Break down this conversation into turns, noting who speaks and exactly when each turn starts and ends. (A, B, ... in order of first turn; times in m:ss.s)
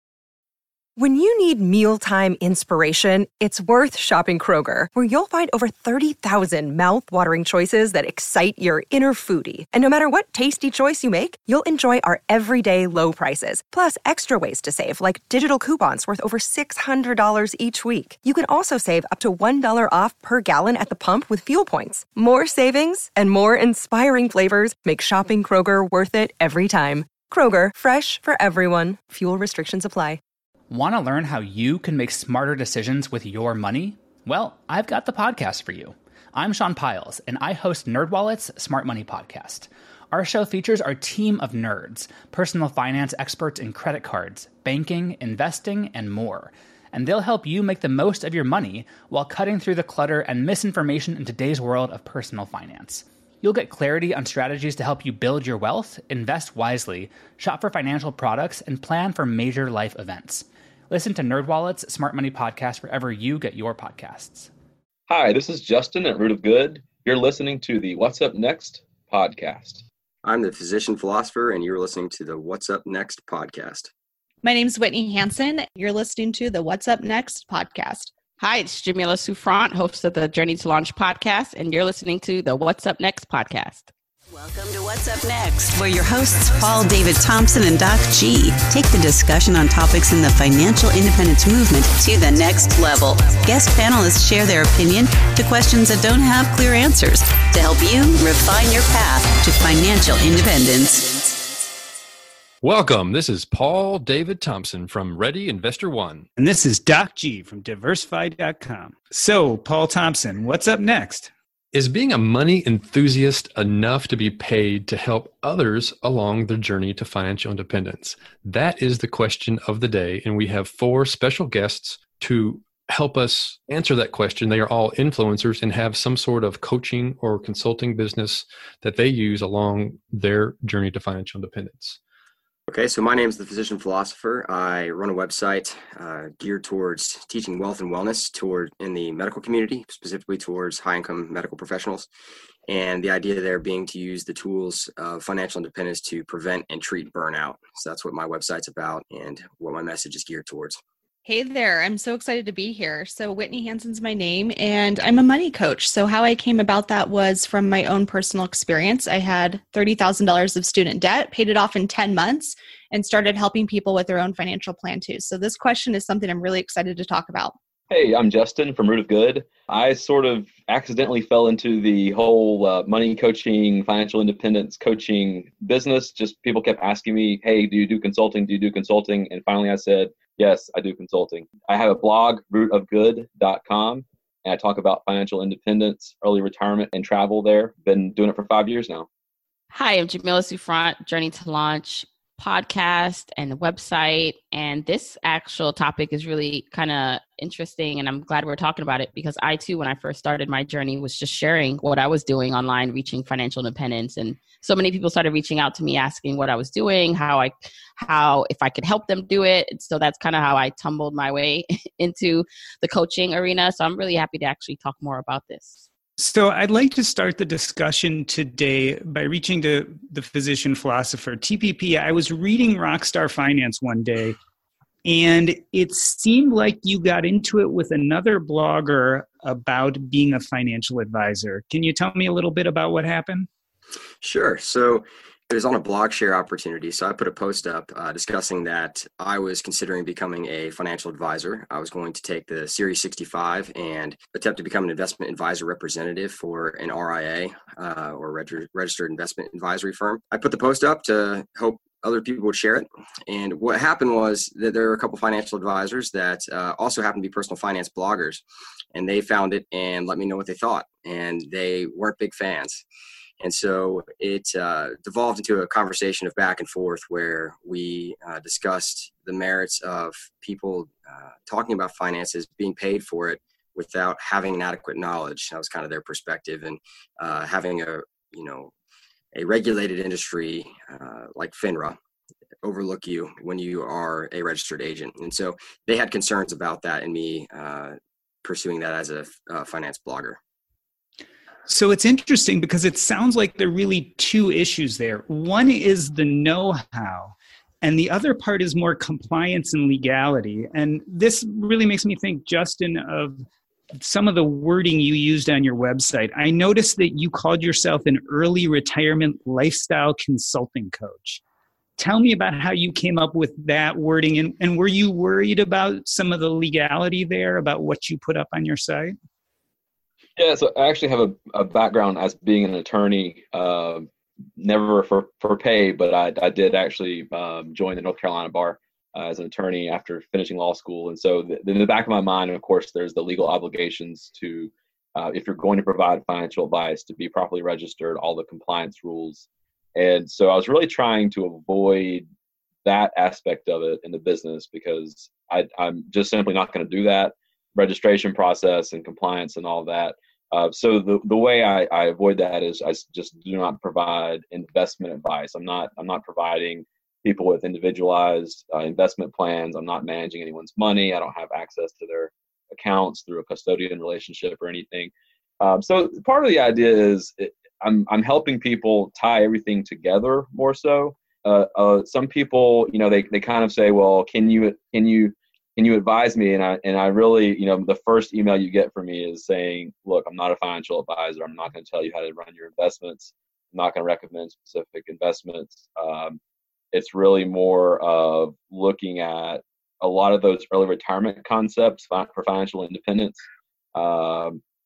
0:01.0-0:30.2 A
0:30.7-1:04.5 B
1:05.1-1:09.8 C
1:10.2-1:13.9 D
1:14.4-1:18.1 E
1:18.4-1:23.9 F
1:24.3-1:41.6 G
1:42.6-1:46.3 H
1:46.4-1:51.3 I
1:51.7-2:12.0 H
2:12.7-2:22.1 D
2:22.7-2:30.8 D
2:31.2-2:47.6 E
2:47.9-3:09.1 C
3:09.7-3:35.8 F
3:36.2-3:44.4 I
3:45.0-3:53.5 I
3:54.2-4:22.8 D
4:23.4-4:38.7 D
4:39.4-4:42.0 D
4:42.6-4:50.4 D
4:51.7-5:11.4 I
5:12.0-5:19.1 I
5:20.4-5:42.3 C
5:42.8-6:26.4 C
6:26.9-6:34.6 C